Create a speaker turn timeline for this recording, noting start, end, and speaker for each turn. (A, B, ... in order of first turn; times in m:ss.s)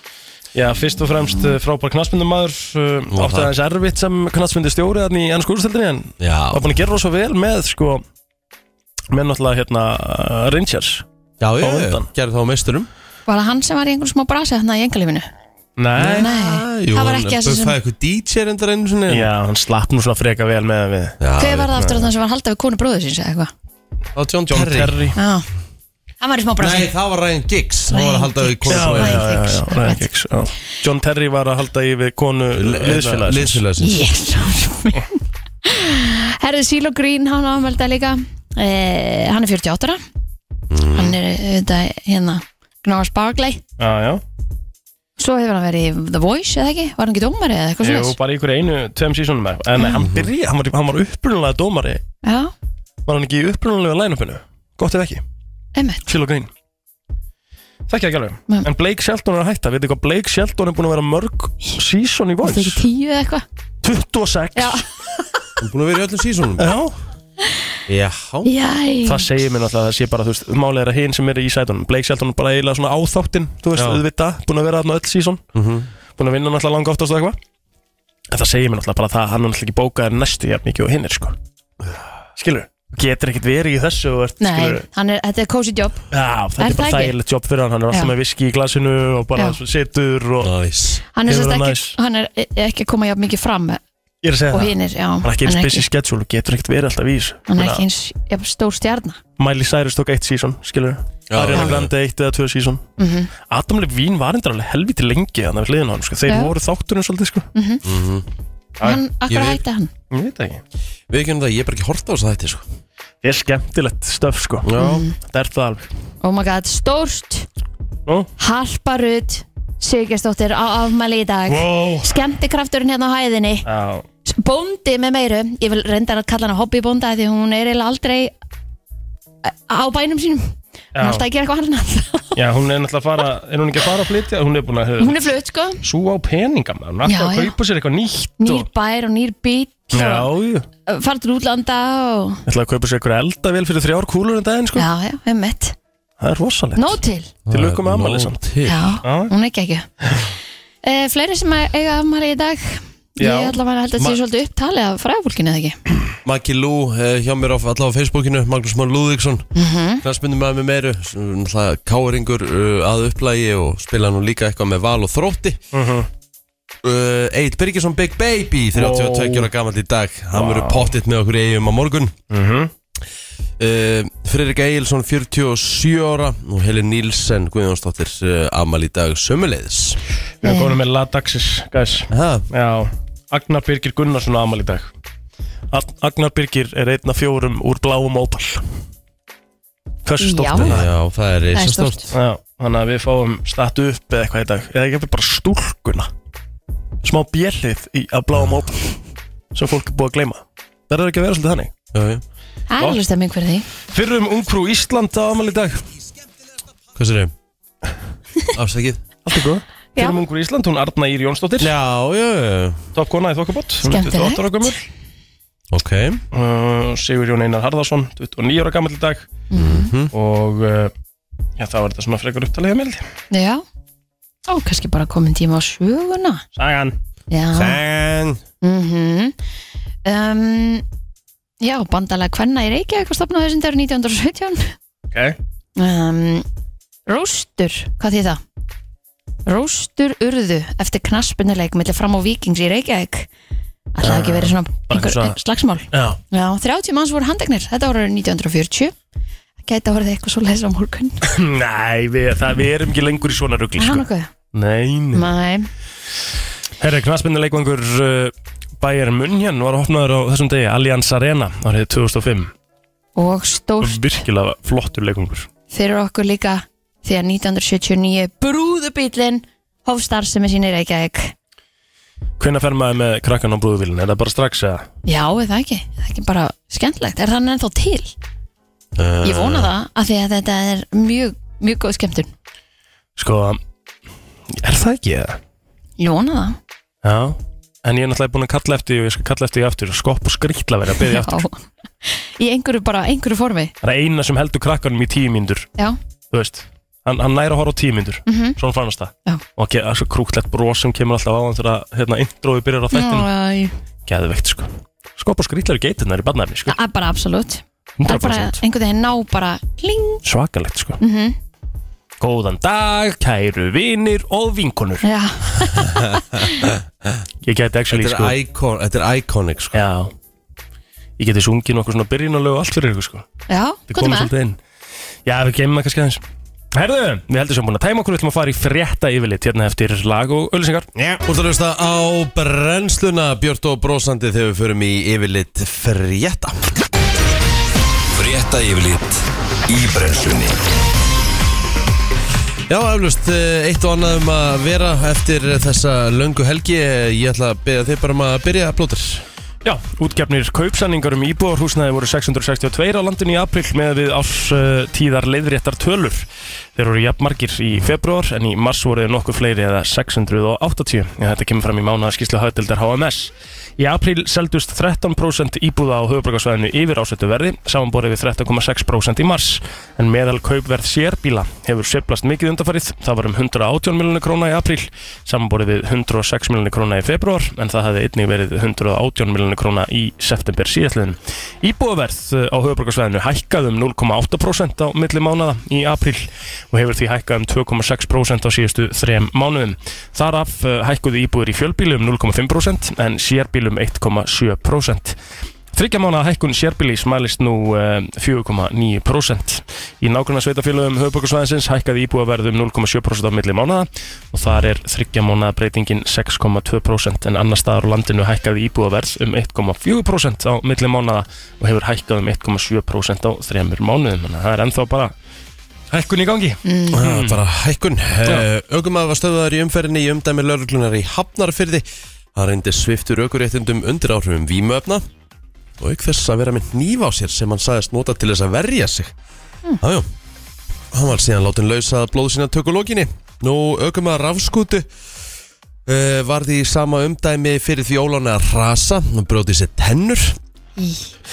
0:00.5-0:08.0 A
0:03.1-0:03.5 B
0:06.2-0:06.7 B
0:09.1-0:11.0 A
0:11.4-0:12.9 B
0:11.6-0:12.1 A
0:13.3-0:15.3 C
0:15.8-0:16.3 A
0:16.0-0:19.3 B
0:16.2-0:17.8 C
0:19.1-0:21.2 A
0:21.2-0:21.8 B
0:21.4-0:23.5 C
0:24.1-0:25.0 B
0:24.5-0:25.2 A
0:25.2-0:25.4 C
0:26.2-0:26.9 C
0:26.6-0:29.3 B
0:27.9-0:30.0 C
0:28.7-0:33.6 A
0:32.5-0:34.0 B
0:33.8-0:40.0 C
0:40.7-0:41.2 B
0:40.9-0:43.6 C
0:43.8-0:44.2 A
0:45.2-0:48.1 C
0:47.8-0:52.0 A
0:49.7-0:50.0 C
0:50.0-0:50.3 B
0:52.2-0:52.5 C
0:53.0-0:55.2 A
0:55.7-0:56.0 C
0:56.0-0:56.5 A
0:57.9-1:02.8 A
1:02.4-1:03.4 C
1:03.8-1:04.8 A
1:04.6-1:04.8 C
1:05.6-1:06.7 B
1:06.6-1:06.9 A
1:07.9-1:08.5 B
1:08.4-1:09.3 C
1:09.0-1:15.4 A
1:13.8-1:14.0 B
1:15.5-1:15.9 B
1:16.2-1:17.4 A
1:18.3-1:21.4 A
1:22.4-1:24.8 A
1:24.4-1:26.0 C
1:26.1-1:30.5 A
1:26.6-1:27.1 C
1:30.4-1:31.0 B
1:31.1-1:33.8 C
1:31.2-1:31.9 A
1:34.2-1:37.8 A
1:34.5-1:35.8 C
1:37.5-1:39.2 C
1:39.4-1:42.8 A
1:41.3-1:41.9 B
1:43.0-1:43.3 C
1:43.5-1:47.5 A
1:46.3-1:46.5 C
1:47.5-1:47.8 C
1:47.8-1:48.2 B
1:48.8-1:49.9 C
1:49.3-1:49.6 B
1:50.1-1:50.6 A
1:51.1-1:52.6 B
1:53.2-1:55.9 A
1:54.6-1:55.0 B
1:54.8-1:55.1 C
1:56.2-1:57.5 C
1:58.4-2:03.6 C
2:01.5-2:02.1 A
2:03.6-2:04.0 A
2:04.2-2:08.3 C
2:09.4-2:12.4 C
2:10.9-2:11.2 A
2:12.3-2:15.1 A
2:15.0-2:15.8 C
2:15.8-2:18.7 A
2:17.0-2:17.5 C
2:18.4-2:20.3 C
2:19.9-2:20.6 A
2:20.9-2:22.4 C
2:22.4-2:24.9 A
2:24.8-2:25.8 C
2:26.2-2:27.0 A
2:26.8-2:27.3 C
2:27.4-2:28.9 B
2:27.5-2:28.4 A
2:28.6-2:29.9 C
2:29.0-2:29.3 A
2:30.8-2:35.8 C
2:33.2-2:33.6 A
2:36.2-2:39.4 B
2:39.5-2:40.0 C
2:40.0-2:45.6 B
2:45.7-2:46.1 A
2:46.8-2:52.1 B
2:48.7-2:49.5 A
2:50.3-2:50.9 A
2:52.3-2:52.7 A
2:53.6-3:00.0 B
3:00.4-3:04.9 A
3:00.4-3:00.7 C
3:02.1-3:02.5 B
3:05.7-3:08.6 A
3:10.0-3:10.9 A
3:10.2-3:10.8 C
3:10.6-3:12.2 B
3:11.5-3:12.1 C
3:12.1-3:16.1 A
3:17.0-3:19.0 A
3:19.5-3:21.7 A
3:21.9-3:22.2 B
3:22.7-3:23.7 C
3:23.9-3:25.8 A
3:26.9-3:27.3 B
3:28.5-3:29.0 B
3:29.2-3:31.7 A
3:31.6-3:32.9 B
3:32.9-3:34.8 A
3:33.8-3:34.8 C
3:35.7-3:36.2 B
3:36.3-3:39.3 A
3:39.5-3:39.9 C
3:39.5-3:40.1 B
3:40.1-3:40.9 A
3:41.6-3:43.0 A
3:43.3-3:43.6 C
3:44.5-3:46.4 C
3:46.6-3:47.0 A
3:47.3-3:47.8 C
3:47.5-3:48.4 B
3:48.6-3:49.3 C
3:50.0-3:50.8 C
3:51.6-3:54.7 C
3:55.1-3:55.4 A
3:55.8-3:56.4 C
3:57.1-3:58.4 C
3:59.4-4:03.3 C
4:03.9-4:08.9 C
4:04.0-4:05.4 A
4:05.9-4:06.2 A
4:09.6-4:11.2 C
4:11.2-4:15.3 A
4:13.8-4:14.3 C
4:15.1-4:15.7 C
4:16.8-4:22.5 A
4:23.2-4:24.2 C
4:23.8-4:25.5 A
4:25.7-4:31.3 C
4:32.4-4:34.9 A
4:35.0-4:38.1 C
4:39.0-4:39.7 B
4:39.2-4:42.3 C
4:43.2-4:43.6 A
4:44.5-4:45.4 A
4:46.0-4:46.6 C
4:47.0-4:51.4 A
4:51.0-4:53.7 C
4:53.8-4:55.7 A
4:56.3-5:03.3 A
4:58.3-4:58.6 C
5:02.9-5:03.7 C
5:04.0-5:06.7 A
5:06.7-5:10.2 C
5:08.0-5:08.6 A
5:10.2-5:11.0 A
5:11.0-5:11.4 C
5:12.2-5:15.0 A
5:15.0-5:16.7 C
5:15.9-5:17.1 B
5:17.4-5:18.4 A
5:17.9-5:19.8 B
5:19.7-5:20.1 A
5:21.2-5:23.2 A
5:23.5-5:24.3 C
5:23.9-5:24.6 A
5:25.2-5:26.2 A
5:26.7-5:31.1 A
5:31.2-5:36.7 B
5:38.1-5:40.6 D
5:42.7-5:49.2 B
5:49.6-6:35.2 A
6:35.7-6:55.1 A
6:55.9-6:57.4 A
6:56.6-6:57.0 C
6:56.9-7:05.0 B
7:05.8-7:09.1 B
7:09.8-7:10.1 B
7:10.9-7:14.9 B
7:15.8-7:20.4 B
7:20.8-7:21.1 C